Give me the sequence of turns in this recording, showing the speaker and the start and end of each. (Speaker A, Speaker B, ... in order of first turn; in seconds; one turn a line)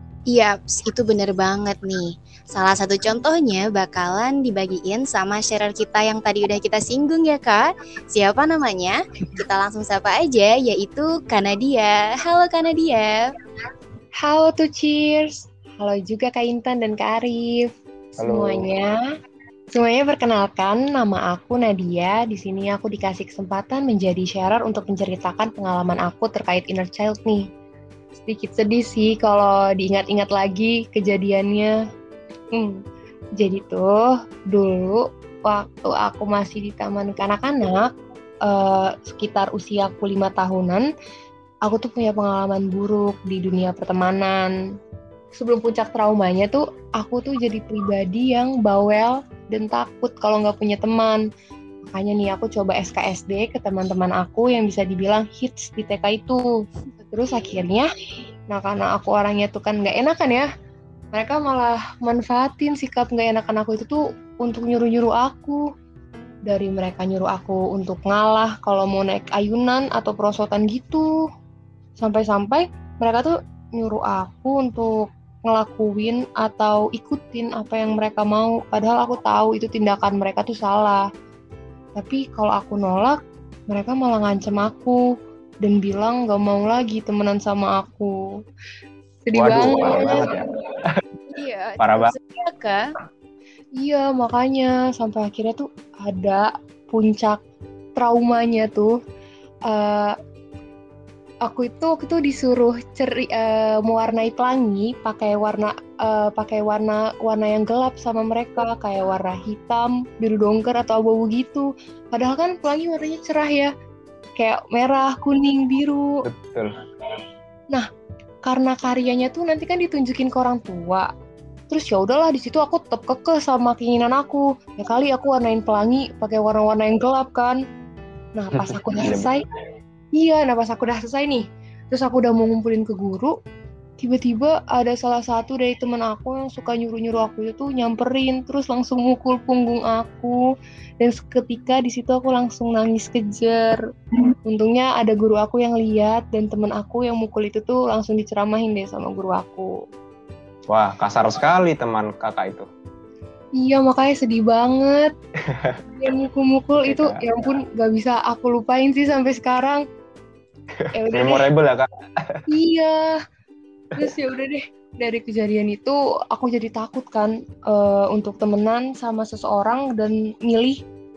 Speaker A: 0.3-13.2
Speaker B: 14.2-17.7
Speaker C: 18.2-18.7
Speaker B: 18.2-19.0
Speaker B: 19.7-27.4
Speaker B: 28.2-31.7
Speaker B: 33.4-37.9
Speaker B: 38.5-40.9
Speaker B: 41.6-44.5
Speaker B: 45.4-51.2
Speaker B: 51.9-56.5
Speaker A: 57.0-57.7
Speaker B: 57.1-57.9
Speaker B: 58.5-60.5
Speaker B: 61.1-65.6
Speaker B: 66.5-71.1
Speaker B: 72.0-81.0
Speaker B: 82.0-83.2
Speaker B: 83.7-85.0
Speaker B: 85.6-88.1
Speaker B: 89.2-90.3
Speaker C: 89.3-91.0
Speaker A: 91.3-92.8
Speaker C: 91.8-92.1
Speaker B: 93.8-97.4
Speaker B: 98.0-98.9
Speaker B: 99.7-100.1
Speaker B: 101.5-113.7
Speaker B: 114.4-116.2
Speaker C: 116.3-116.8
Speaker B: 118.5-121.1
Speaker B: 121.7-127.6
Speaker B: 128.3-129.4
Speaker C: 128.6-129.3
Speaker B: 130.1-133.3
Speaker B: 134.0-140.4
Speaker B: 141.0-143.8
Speaker B: 144.5-149.7
Speaker C: 150.7-152.7
Speaker B: 153.6-155.1
Speaker B: 155.9-159.8
Speaker C: 156.8-157.2
Speaker C: 160.8-162.4
Speaker B: 160.9-161.5
Speaker B: 162.5-163.2
Speaker B: 164.0-170.8